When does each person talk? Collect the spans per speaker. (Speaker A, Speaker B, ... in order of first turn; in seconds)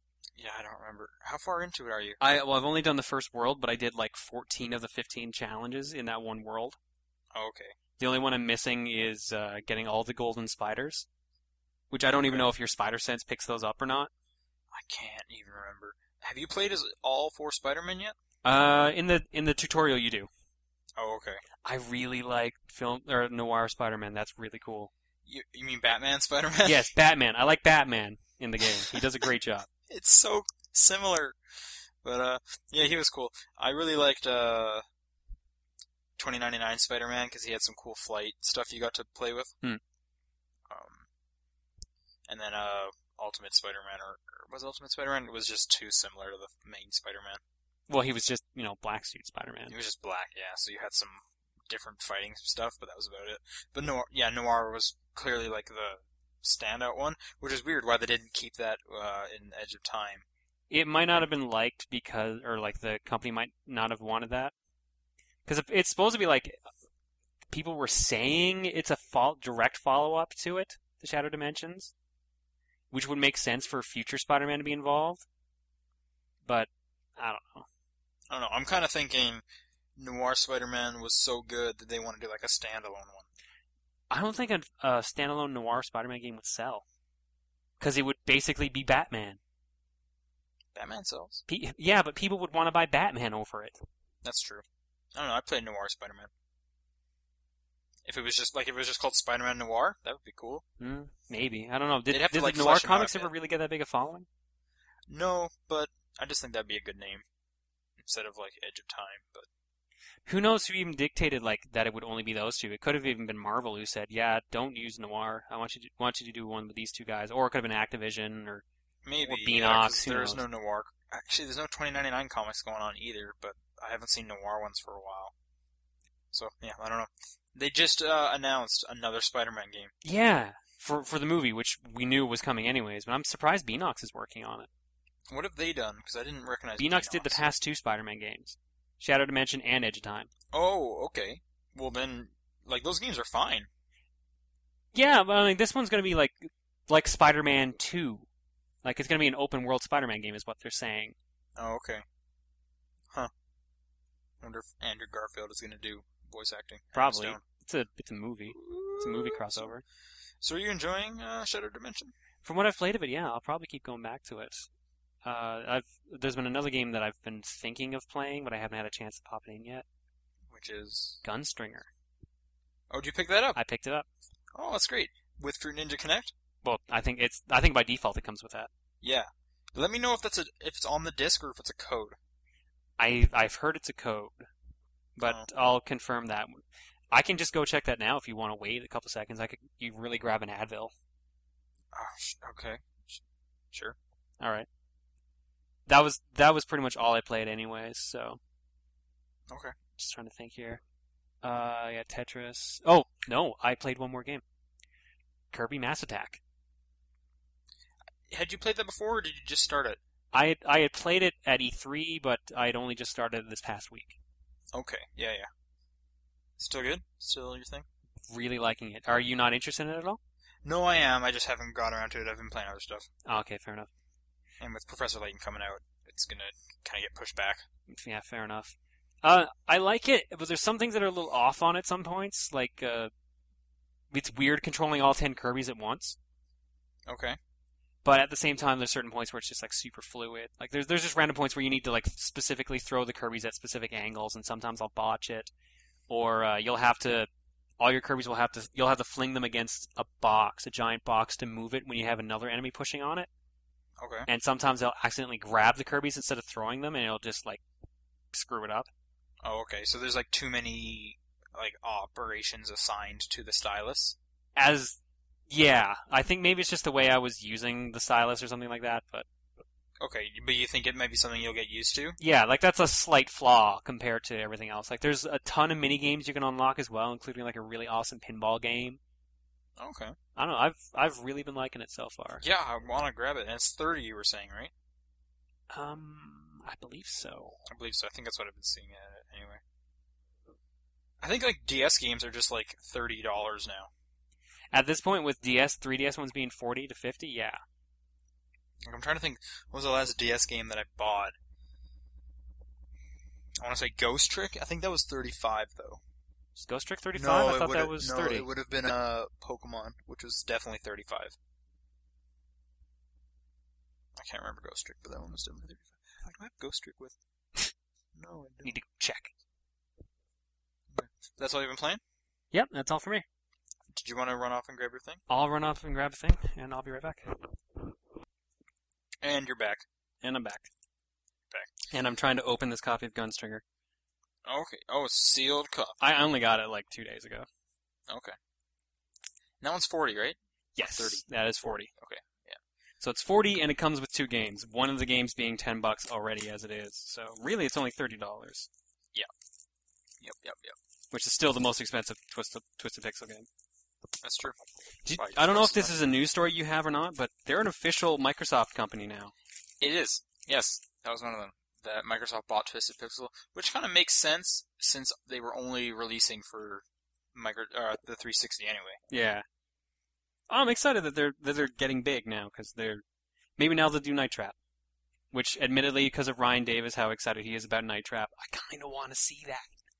Speaker A: 0.3-2.2, 7.3-7.8, 12.1-12.5, 14.7-18.1, 21.0-21.4, 25.2-26.9, 28.6-29.0, 29.9-31.4, 32.0-34.8, 36.2-39.5, 40.7-41.1, 42.3-47.4, 49.7-60.2, 78.3-79.4, 80.0-83.3, 90.7-91.4, 94.2-94.6, 95.1-96.3, 98.0-100.6, 102.1-103.3, 105.1-107.2, 108.0-109.5, 119.0-125.3, 126.3-129.9, 135.3-137.4, 140.5-143.7, 151.6-152.0, 154.4-157.4, 158.5-159.7, 160.4-162.1, 170.5-171.2, 172.9-173.6, 174.5-176.3, 179.0-182.2, 191.9-193.2, 199.5-199.7, 208.3-210.0, 214.7-215.5, 216.6-217.9, 220.6-223.1, 224.6-227.6, 237.1-237.4, 254.0-254.3, 259.4-264.2, 270.0-272.2, 279.8-280.1, 282.4-284.7, 287.7-289.6, 291.2-293.9, 298.8-301.4, 303.6-306.0, 307.1-311.4, 314.1-317.2, 318.1-318.7, 320.9-322.0, 323.9-325.2, 329.2-329.8, 334.4-336.0, 338.1-338.3, 339.6-341.2, 341.9-342.6, 350.2-350.8, 354.2-354.6, 355.1-356.0, 359.8-369.0
Speaker B: 2.2-6.8, 8.0-11.1, 11.9-14.1, 18.4-20.3, 21.6-24.9, 26.6-29.7, 47.9-49.8, 60.7-64.5, 65.5-66.5, 67.5-71.9, 72.9-75.2, 76.4-77.7, 84.1-86.8, 87.8-89.4, 91.5-93.8, 100.8-104.3, 110.2-118.6, 119.2-120.4, 130.0-134.7, 136.8-140.3, 144.9-148.3, 148.8-151.1, 156.9-159.8, 162.4-164.7, 165.2-169.8, 171.2-171.9, 173.5-174.1, 176.6-178.7, 183.0-184.3, 185.2-190.9, 194.4-194.7, 195.9-198.4, 200.0-200.8, 201.4-204.4, 205.5-206.4, 210.3-214.2, 218.3-220.2, 223.2-223.9, 227.9-233.1, 234.1-236.2, 238.0-245.5, 246.1-253.3, 254.2-257.6, 258.3-258.9, 264.6-265.0, 265.5-269.3, 272.2-279.0, 280.3-282.4, 285.7-287.6, 294.7-297.6, 306.6-308.5, 318.6-319.3, 322.5-323.2, 325.3-327.5, 330.2-330.7, 331.9-333.6, 336.0-337.5, 340.8-341.9, 343.0-348.7, 351.1-353.5, 355.0-359.3, 369.1-369.4, 370.5-373.0, 373.6-374.6, 375.3-379.7